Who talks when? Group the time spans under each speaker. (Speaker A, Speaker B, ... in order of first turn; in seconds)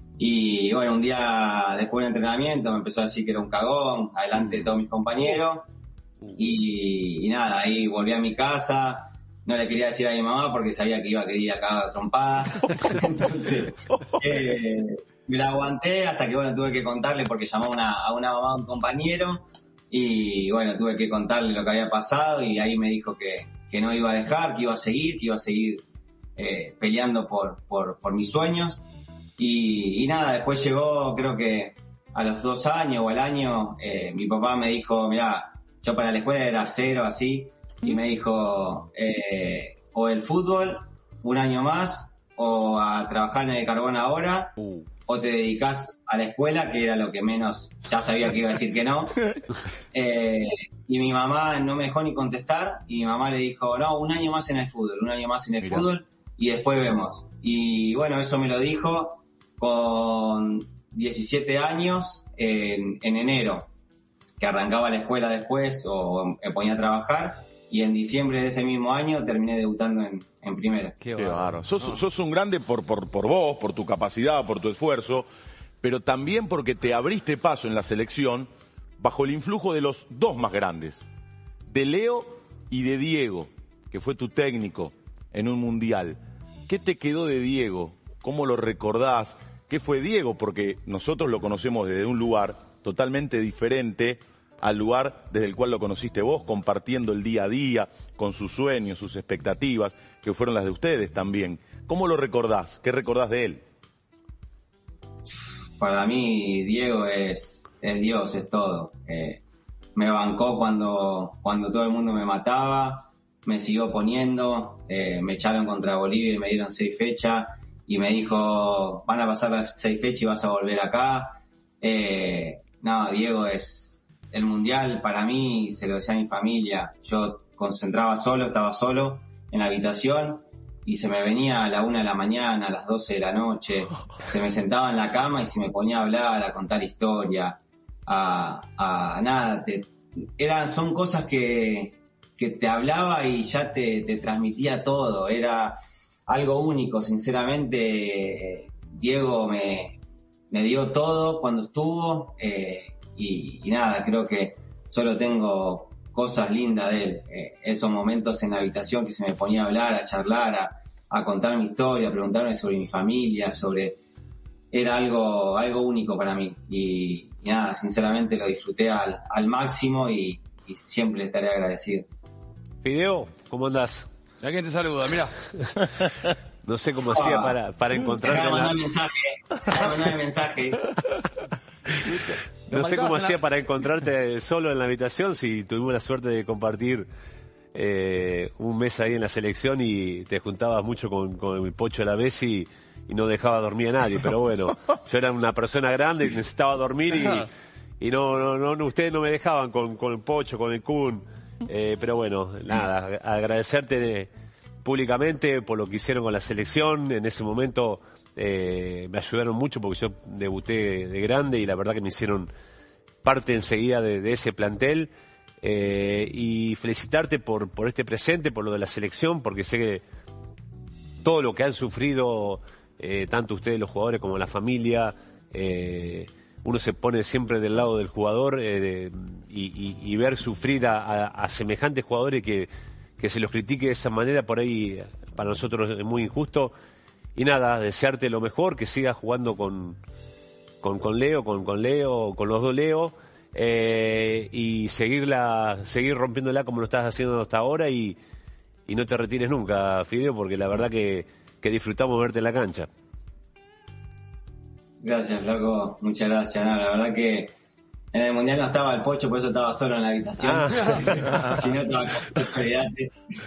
Speaker A: 0.2-5.7, 6.4-25.8, 26.4-28.8, 29.4-49.4, 49.9-63.7, 64.4-71.0, 105.8-109.4, 110.0-150.0, 150.5-164.0, 164.7-172.1, 177.1-177.6, 178.2-180.9, 255.0-257.6, 258.1-263.1
Speaker B: 71.0-72.0, 174.4-175.3, 182.1-183.4
Speaker C: 71.2-75.3, 75.8-78.5, 79.0-81.0, 81.7-103.6
Speaker D: 172.8-174.1, 176.7-178.8, 182.7-187.1, 187.7-197.5, 198.0-204.3, 204.8-212.5, 213.2-215.1, 215.6-220.0, 221.2-236.7, 237.4-240.0, 240.8-248.2, 248.9-252.9, 260.5-261.5